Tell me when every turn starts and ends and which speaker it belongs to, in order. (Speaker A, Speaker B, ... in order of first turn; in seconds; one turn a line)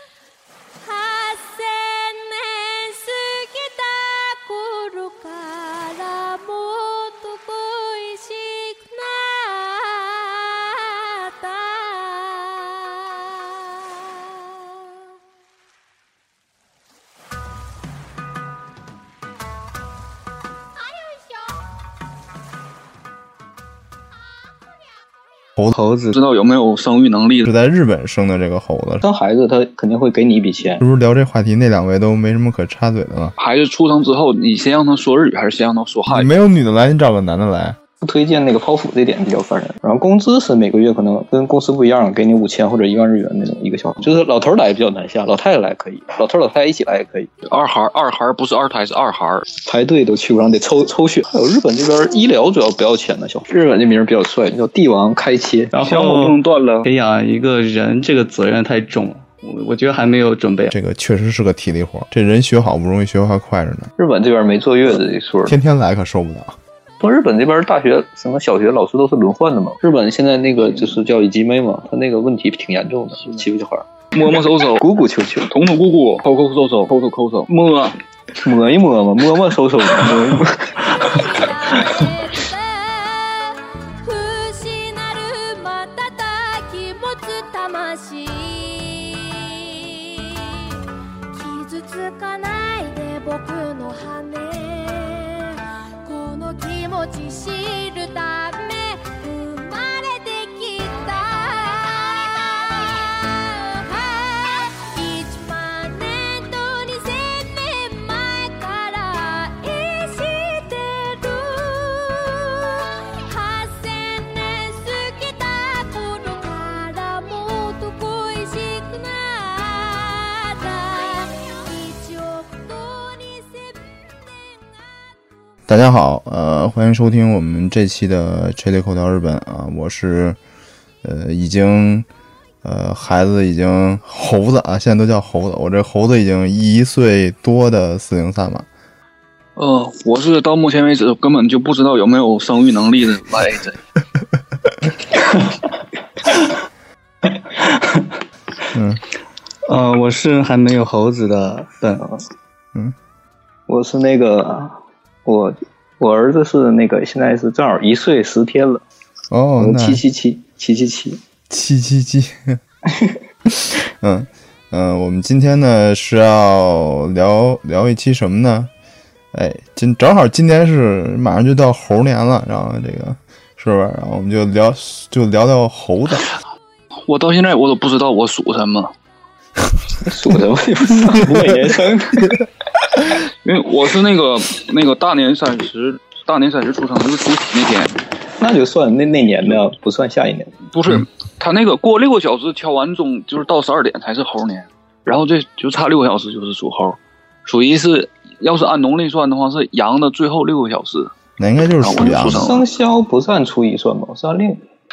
Speaker A: 0.8-14.9
Speaker B: 25.7-26.1
Speaker C: 26.1-27.5
Speaker D: 27.4-29.0
Speaker E: 29.0-30.8
Speaker D: 30.8-33.3
Speaker C: 33.4-36.3
Speaker D: 36.1-37.8
Speaker E: 38.0-47.3
Speaker C: 47.4-49.5
Speaker E: 49.6-55.9
Speaker B: 55.8-60.8
Speaker C: 55.8-56.9
Speaker D: 60.7-63.9
Speaker E: 64.0-65.6
Speaker D: 65.5-66.6
Speaker E: 67.0-73.9
Speaker C: 74.1-74.8
Speaker E: 74.8-75.5
Speaker C: 75.5-78.0
Speaker E: 78.4-81.1
Speaker A: 81.0-90.7
Speaker A: 91.3-123.8
Speaker D: 125.7-130.4
Speaker D: 131.0-132.1
Speaker D: 132.6-138.7
Speaker C: 139.6-143.8
Speaker D: 148.7-149.0
Speaker B: 149.7-152.1
Speaker E: 153.7-158.8
Speaker D: 159.3-160.0
Speaker E: 159.6-161.2
Speaker D: 161.5-162.6
Speaker D: 163.5-168.7
Speaker D: 169.3-176.3
Speaker C: 177.1-178.9
Speaker E: 180.0-182.4
Speaker C: 183.4-188.0
Speaker E: 188.4-190.5
Speaker C: 190.7-201.1
Speaker D: 201.4-202.6
Speaker C: 201.8-202.6
Speaker E: 202.3-204.6